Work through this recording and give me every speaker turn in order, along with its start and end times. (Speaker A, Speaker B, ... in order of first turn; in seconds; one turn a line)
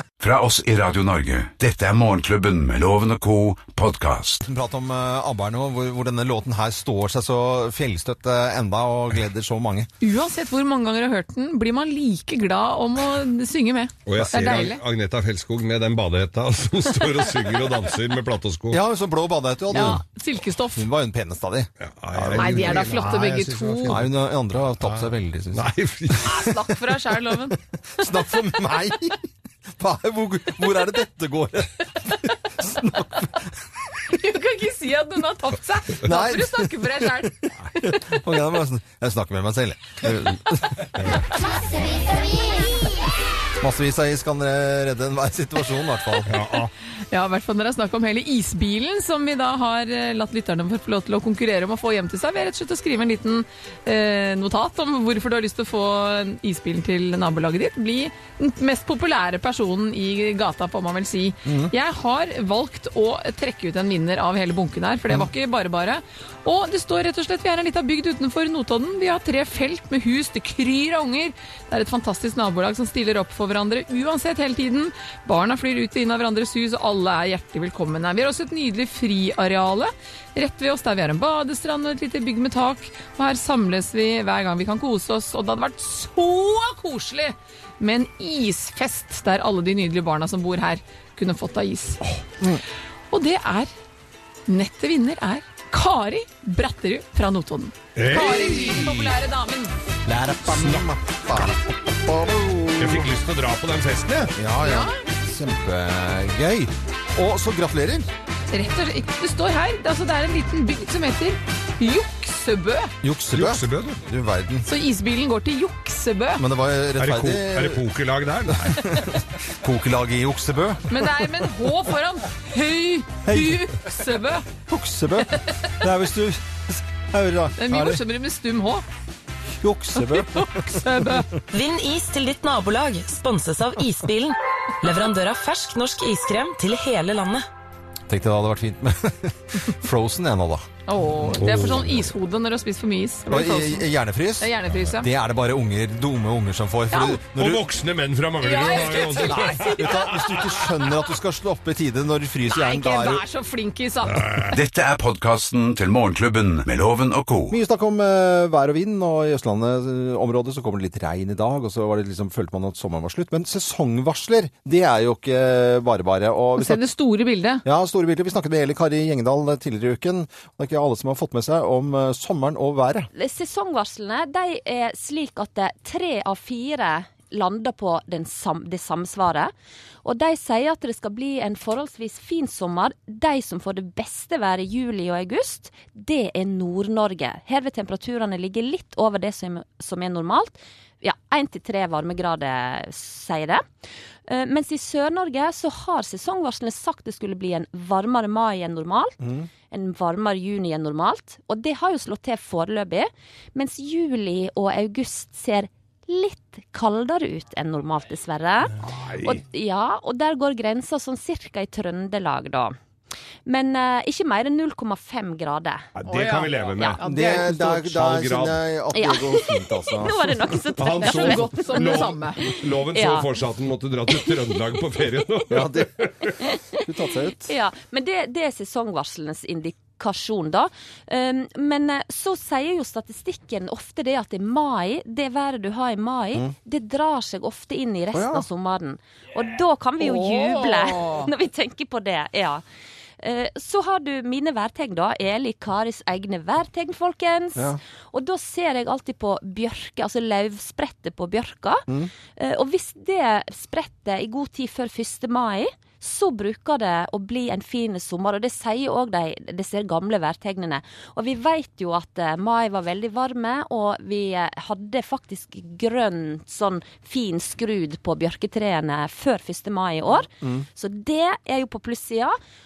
Speaker A: 0.2-4.4
Speaker B: 4.4-9.9
Speaker C: 10.0-14.8
Speaker D: 14.1-18.8
Speaker B: 14.2-14.5
Speaker B: 18.7-20.0
Speaker C: 19.7-20.9
Speaker B: 20.7-23.1
Speaker D: 21.8-24.0
Speaker C: 22.4-24.0
Speaker B: 23.9-25.7
Speaker D: 24.8-26.5
Speaker C: 26.2-27.6
Speaker B: 27.9-33.5
Speaker C: 34.1-37.5
Speaker B: 36.0-41.3
Speaker D: 41.0-41.2
Speaker B: 43.6-46.4
Speaker D: 46.3-46.7
Speaker C: 47.1-92.0
Speaker B: 61.5-61.7
Speaker C: 93.1-93.7
Speaker C: 94.5-99.7
Speaker D: 98.0-99.1
Speaker B: 100.0-103.1
Speaker D: 100.6-100.9
Speaker D: 102.8-104.3
Speaker B: 104.3-108.1
Speaker C: 104.6-105.0
Speaker C: 108.5-112.9
Speaker B: 113.0-114.7
Speaker D: 113.3-114.0
Speaker C: 114.7-116.4
Speaker B: 116.4-117.8
Speaker D: 117.0-118.8
Speaker B: 118.5-121.0
Speaker C: 120.9-124.5
Speaker B: 123.2-123.8
Speaker B: 124.7-128.0
Speaker C: 125.3-125.7
Speaker C: 127.6-128.8
Speaker B: 129.6-131.2
Speaker C: 129.9-131.4
Speaker E: 131.5-137.5
Speaker B: 138.1-140.7
Speaker C: 140.9-145.1
Speaker B: 141.3-141.9
Speaker B: 143.2-147.7
Speaker C: 146.9-147.2
Speaker D: 147.3-150.4
Speaker C: 148.4-150.5
Speaker B: 148.4-153.2
Speaker C: 152.5-154.6
Speaker A: 154.5-157.6
Speaker B: 157.5-166.9
Speaker C: 166.6-167.6
Speaker B: 167.6-173.1
Speaker F: 173.1-179.5
Speaker F: 180.0-193.6
Speaker F: 194.3-199.2
Speaker B: 199.2-199.5
Speaker F: 199.7-212.7
Speaker D: 208.8-209.4
Speaker F: 213.4-215.9
Speaker D: 215.9-218.6
Speaker C: 216.1-217.7
Speaker B: 217.0-220.6
Speaker F: 218.9-222.0
Speaker D: 220.8-226.4
Speaker C: 221.0-222.4
Speaker F: 222.8-223.3
Speaker F: 224.1-224.8
Speaker B: 225.5-227.5
Speaker F: 226.4-226.8
Speaker F: 227.4-242.6
Speaker B: 238.1-238.4
Speaker B: 240.1-240.4
Speaker F: 243.2-272.3
Speaker B: 270.4-270.6